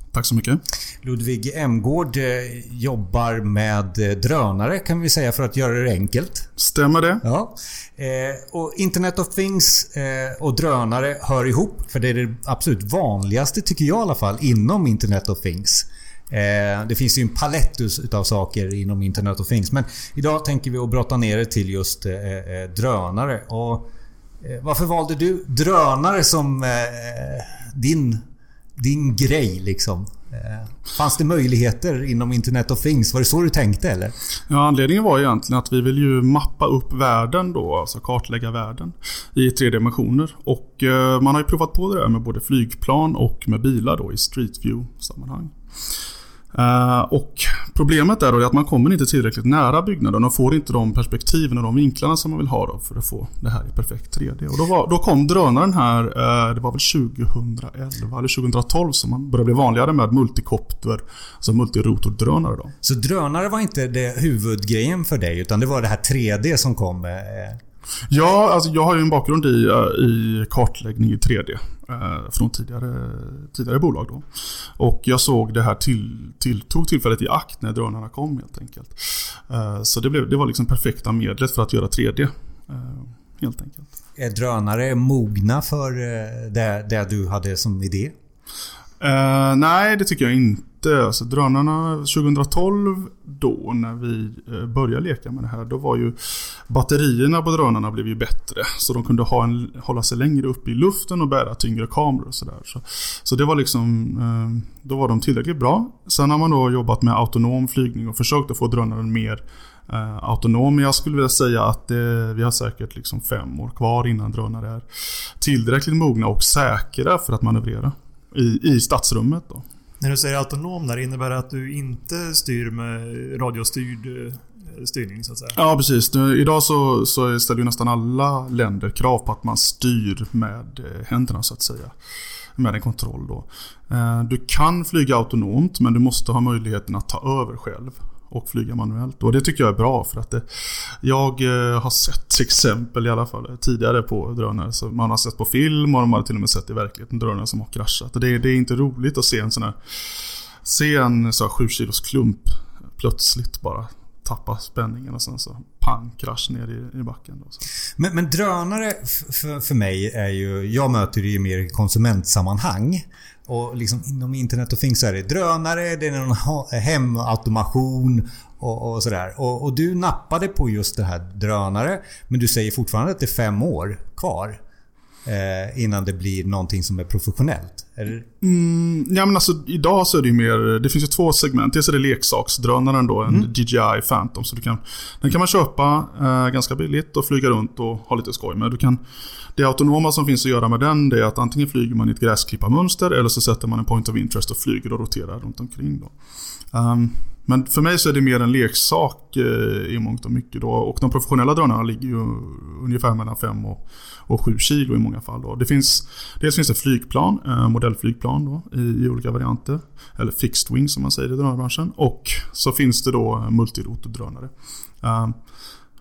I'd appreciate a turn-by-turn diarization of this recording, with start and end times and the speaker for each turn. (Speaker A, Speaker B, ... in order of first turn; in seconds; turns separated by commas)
Speaker A: 0.1-0.6, Speaker B: 1.0-6.5, Speaker A: 6.6-7.2, Speaker B: 7.2-23.9, Speaker B: 24.4-28.2, Speaker B: 28.8-34.1, Speaker A: 34.5-45.5, Speaker A: 46.5-62.7, Speaker B: 62.8-67.6, Speaker A: 68.1-74.2, Speaker A: 74.8-83.9, Speaker B: 84.2-88.1, Speaker A: 89.0-96.2, Speaker A: 96.7-114.8, Speaker A: 115.4-119.7, Speaker C: 120.0-125.5, Speaker A: 125.5-131.9, Speaker A: 132.6-140.4, Speaker A: 141.0-149.7, Speaker A: 150.6-157.6, Speaker B: 158.0-174.6, Speaker B: 175.2-178.3, Speaker A: 178.4-189.0, Speaker A: 189.6-196.1, Speaker A: 196.7-215.4